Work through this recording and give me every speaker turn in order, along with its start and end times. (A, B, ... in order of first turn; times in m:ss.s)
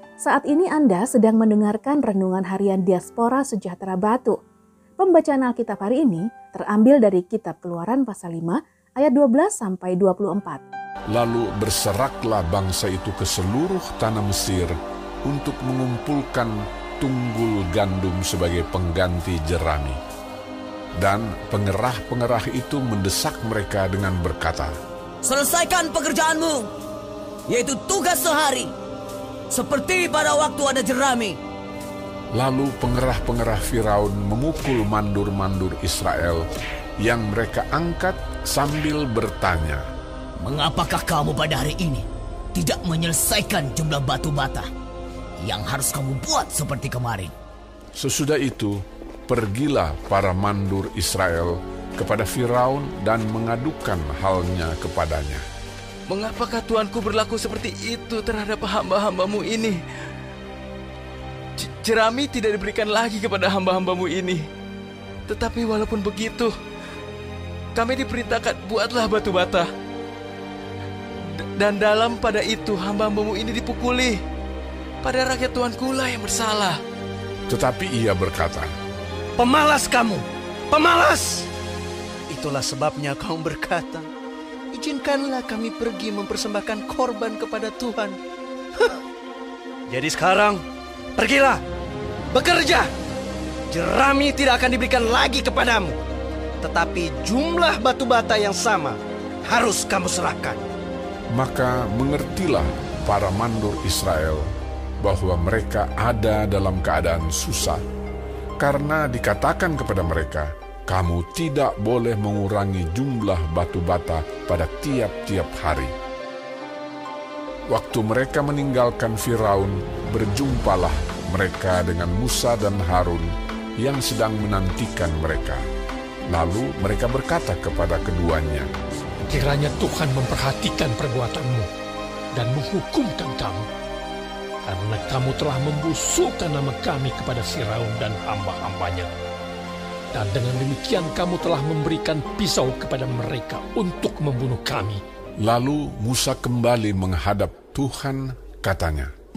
0:00.2-0:04.4 A
0:05.0-0:10.6 A
0:11.1-0:14.7 B
0:15.2-0:20.0 B
0:21.0-0:24.7 B
0:25.2-0:26.7 C
0:27.5-0:28.7 C
0:29.5-0:31.4 C
0:32.4-0:36.4 B
0:37.0-0:39.8 B
0:40.4-0:44.7 C
0:45.4-0:47.3 C
0:48.0-0:48.8 B
0:49.3-0:55.4 B
0:56.1-0:59.8 D
1:01.6-1:04.4 D
1:05.3-1:06.5 D
1:07.8-1:09.7 D
1:11.6-1:14.2 D
1:15.0-1:16.8 D
1:17.5-1:18.7 B
1:19.4-1:21.5 E
1:22.3-1:24.1 E
1:24.7-1:28.2 E
1:29.9-1:30.6 E
1:31.2-1:31.6 E
1:32.3-1:32.9 E
1:33.7-1:36.0 E
1:36.6-1:40.6 E
1:41.3-1:44.5 B
1:45.0-1:47.8 B
1:48.6-1:55.9 B
1:57.7-2:03.3 B
2:03.8-2:05.6 B
2:06.3-2:08.7 B
2:09.3-2:11.7 F
2:12.3-2:13.7 F
2:14.6-2:19.1 F
2:20.1-2:25.0 F
2:25.4-2:29.1 B